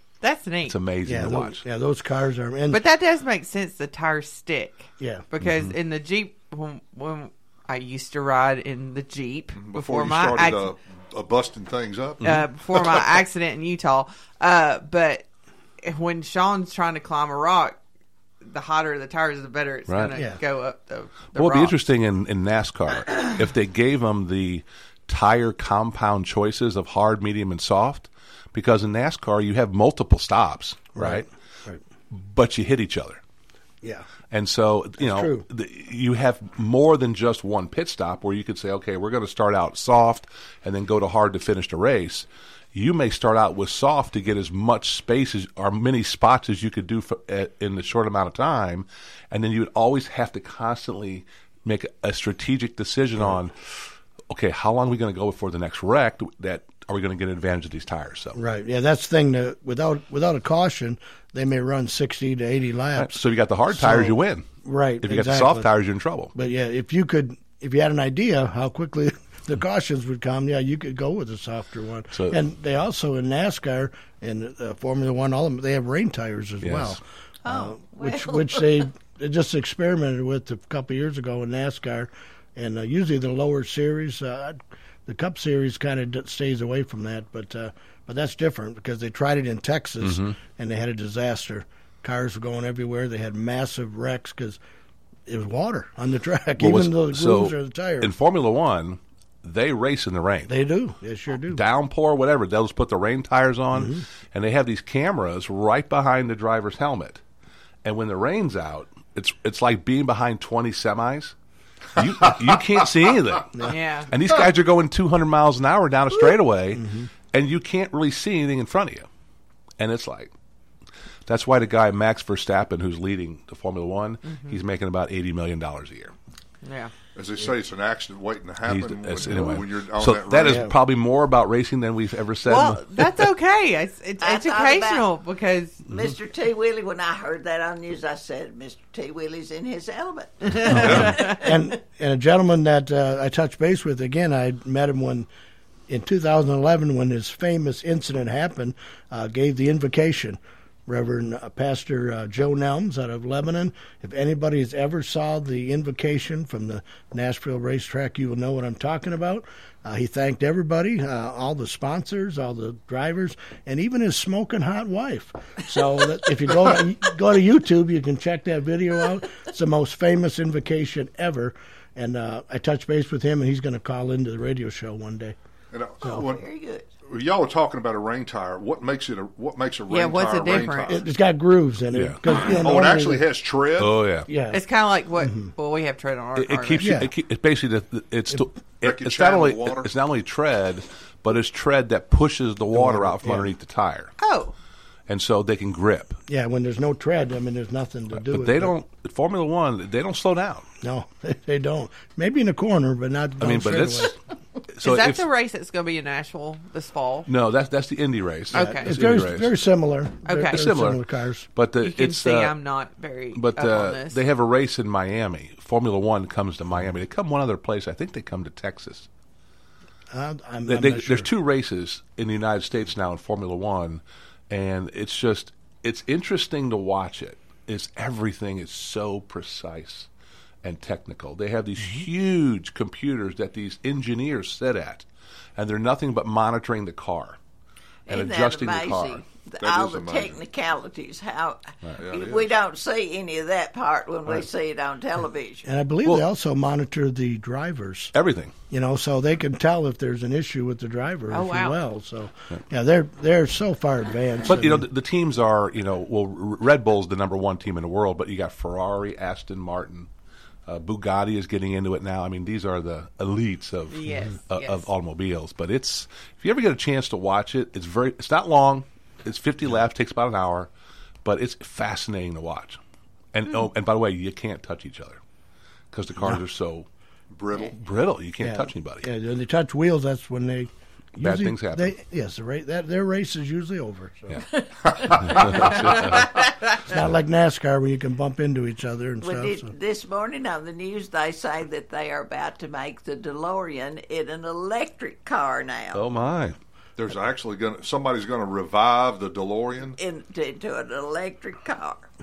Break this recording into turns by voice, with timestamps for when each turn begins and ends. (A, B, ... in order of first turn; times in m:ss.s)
0:00.2-0:00.8 A
0:00.7-0:01.6 B
0:01.0-0:02.8 C
0:02.7-0:10.7 A
0:05.0-0:05.2 C
0:05.4-0:05.7 B
0:09.6-0:12.3 D
0:12.2-0:15.3 A
0:15.8-0:17.8 A
0:18.4-0:21.8 A
0:19.9-0:20.2 B
0:20.1-0:20.4 C
0:21.3-0:31.3 B
0:31.0-0:31.8 C
0:32.1-0:33.2 B
0:34.3-0:58.4 B
0:35.0-0:35.4 C
0:58.4-1:03.2 C
1:03.0-1:04.5 B
1:03.7-1:05.7 C
1:05.0-1:06.3 B
1:06.4-1:34.6 C
1:16.6-1:17.0 B
1:17.4-1:18.8 E
1:30.0-1:30.4 B
1:35.3-1:38.1 C
1:36.6-1:40.5 B
1:40.5-1:41.6 C
1:41.5-1:47.2 B
1:43.7-1:44.0 C
1:47.8-1:51.4 B
1:52.0-1:59.1 B
1:52.0-1:52.4 D
1:53.7-1:54.1 A
1:56.7-1:57.1 C
1:59.8-2:00.3 B
2:01.3-2:06.1 B
2:04.2-2:04.6 A
2:06.6-2:06.9 A
2:07.2-2:10.7 D
2:08.6-2:13.1 B
2:10.4-2:10.7 C
2:12.5-2:15.8 A
2:14.2-2:15.1 E
2:15.9-2:21.6 E
2:20.7-2:21.3 A
2:20.7-2:25.3 C
2:20.8-2:21.1 D
2:25.9-2:55.4 C
2:55.7-2:56.4 D
2:56.0-2:56.9 E
2:57.1-3:01.0 D
2:59.9-3:01.0 A
3:00.9-3:03.2 C
3:01.9-3:02.5 B
3:02.3-3:04.0 D
3:03.8-3:04.3 B
3:04.3-3:04.6 C
3:04.5-3:06.9 A
3:05.2-3:05.5 C
3:06.4-3:14.1 B
3:06.8-3:07.1 C
3:08.8-3:09.9 D
3:12.7-3:13.5 C
3:14.2-3:14.6 A
3:15.1-3:16.2 B
3:16.3-3:18.7 C
3:18.1-3:20.7 B
3:20.8-3:24.1 C
3:23.4-3:24.2 B
3:24.7-3:25.3 B
3:24.8-3:27.3 A
3:27.3-3:29.6 B
3:28.5-3:31.5 C
3:28.5-3:29.0 A
3:30.3-3:30.6 A
3:30.4-3:31.0 B
3:31.5-3:32.6 B
3:31.8-3:34.2 A
3:33.3-3:39.1 B
3:40.1-3:41.3 C
3:40.7-3:50.1 B
3:50.6-3:55.1 B
3:51.8-3:52.1 C
3:55.6-3:57.4 B
3:58.1-4:05.7 E
3:58.1-3:59.2 B
3:59.6-4:00.4 D
4:02.0-4:02.5 D
4:05.6-4:08.1 C
4:08.1-4:08.5 B
4:08.7-4:14.9 C
4:11.3-4:11.8 A
4:14.4-4:20.1 B
4:20.7-4:30.7 B
4:23.9-4:24.9 A
4:31.2-4:32.8 B
4:33.3-4:35.2 B
4:35.9-4:36.9 B
4:37.3-4:37.8 D
4:37.7-4:39.1 B
4:38.4-4:44.4 C
4:41.2-4:42.0 B
4:44.8-4:45.8 D
4:45.2-4:46.2 B
4:45.3-4:46.0 C
4:46.2-4:46.8 A
4:46.8-4:49.7 C
4:49.2-4:56.0 E
4:55.9-4:56.6 B
4:57.0-5:00.0 D
5:00.0-5:02.1 E